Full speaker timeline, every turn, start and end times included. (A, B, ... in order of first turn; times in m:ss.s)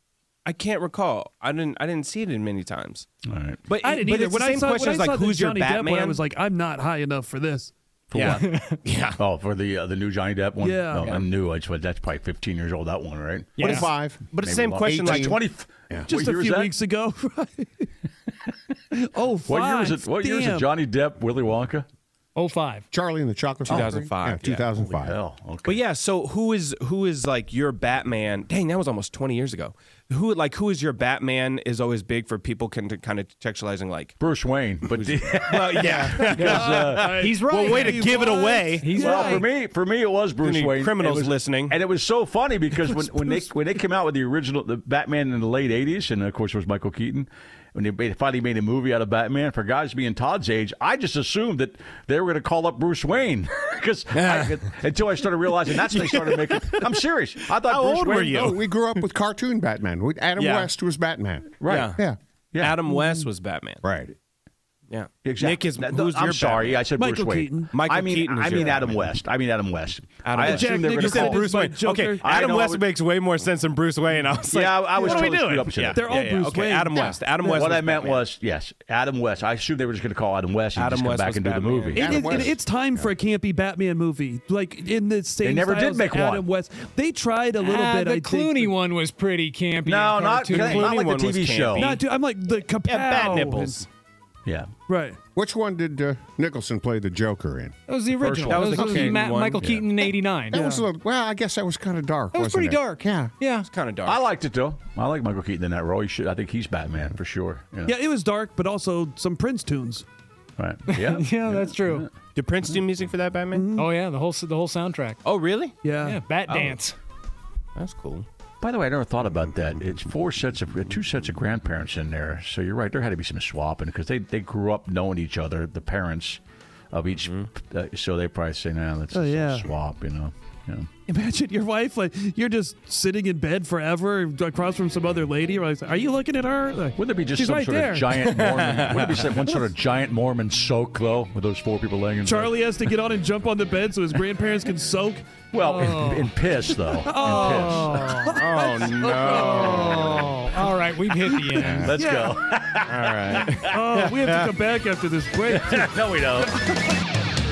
0:00.5-0:03.1 A
0:03.3-0:03.6 B
0:03.7-0:06.2 A
0:03.8-0:07.7 C
0:08.1-0:08.4 B
0:08.2-0:09.2 A
0:08.2-0:08.8 D
0:09.2-0:13.8 B
0:10.6-0:11.2 C
0:13.6-0:13.9 D
0:13.6-0:15.4 A
0:13.6-0:14.3 E
0:14.3-0:16.7 B
0:14.8-0:15.4 E
0:16.0-0:17.9 C
0:18.9-0:20.7 C
0:19.5-0:21.9 B
0:22.4-0:22.9 D
0:22.9-0:25.2 E
0:23.7-0:24.6 A
0:23.7-0:24.0 B
0:24.8-0:25.8 B
0:25.6-0:34.2 A
0:34.2-0:37.3 B
0:34.9-0:38.9 A
0:35.9-0:39.4 C
0:37.1-0:39.5 D
0:39.0-0:58.5 B
0:40.4-0:41.8 A
0:54.1-0:54.7 A
0:55.5-0:58.7 A
0:58.2-1:02.2 E
1:00.4-1:00.7 A
1:01.6-1:01.9 B
1:01.7-1:02.1 A
1:02.5-1:02.8 B
1:02.6-1:03.8 A
1:02.9-1:03.3 C
1:03.8-1:04.1 E
1:04.9-1:06.9 A
1:05.2-1:11.5 B
1:07.0-1:07.7 C
1:07.7-1:09.0 A
1:10.2-1:18.2 A
1:10.4-1:12.7 C
1:12.2-1:12.8 B
1:14.5-1:16.0 B
1:15.0-1:15.3 C
1:15.9-1:17.6 C
1:17.4-1:22.5 B
1:20.8-1:22.2 A
1:21.9-1:28.7 C
1:22.0-1:22.6 E
1:25.4-1:26.4 B
1:27.6-1:30.9 D
1:29.8-1:32.0 B
1:30.5-1:32.0 A
1:31.8-1:33.8 C
1:32.8-1:33.9 A
1:34.9-1:35.2 C
1:35.4-1:37.7 E
1:37.9-1:40.8 D
1:38.2-1:39.9 B
1:38.4-1:39.6 A
1:40.5-1:43.3 E
1:42.3-1:43.7 D
1:43.6-1:44.2 A
1:44.1-1:47.9 B
1:47.9-1:50.0 C
1:50.6-1:52.1 B
1:50.9-1:52.1 D
1:52.4-1:53.6 A
1:53.5-1:53.9 C
1:53.8-1:55.2 D
1:55.2-1:55.7 A
1:55.8-1:56.2 C
1:56.0-1:57.0 D
1:56.5-1:56.7 A
1:57.8-1:58.3 A
1:58.6-2:10.9 B
2:07.2-2:07.5 A
2:09.1-2:09.7 C
2:11.1-2:18.3 C
2:17.0-2:22.5 B
2:18.3-2:19.3 A
2:19.4-2:19.7 C
2:22.2-2:26.2 C
2:25.5-2:28.2 B
2:25.7-2:26.3 D
2:26.7-2:30.1 C
2:27.2-2:28.4 D
2:28.4-2:30.3 A
2:29.3-2:31.9 D
2:31.6-2:33.7 B
2:31.6-2:31.9 A
2:31.8-2:32.4 C
2:32.9-2:34.6 A
2:33.7-2:36.8 C
2:35.5-2:36.5 B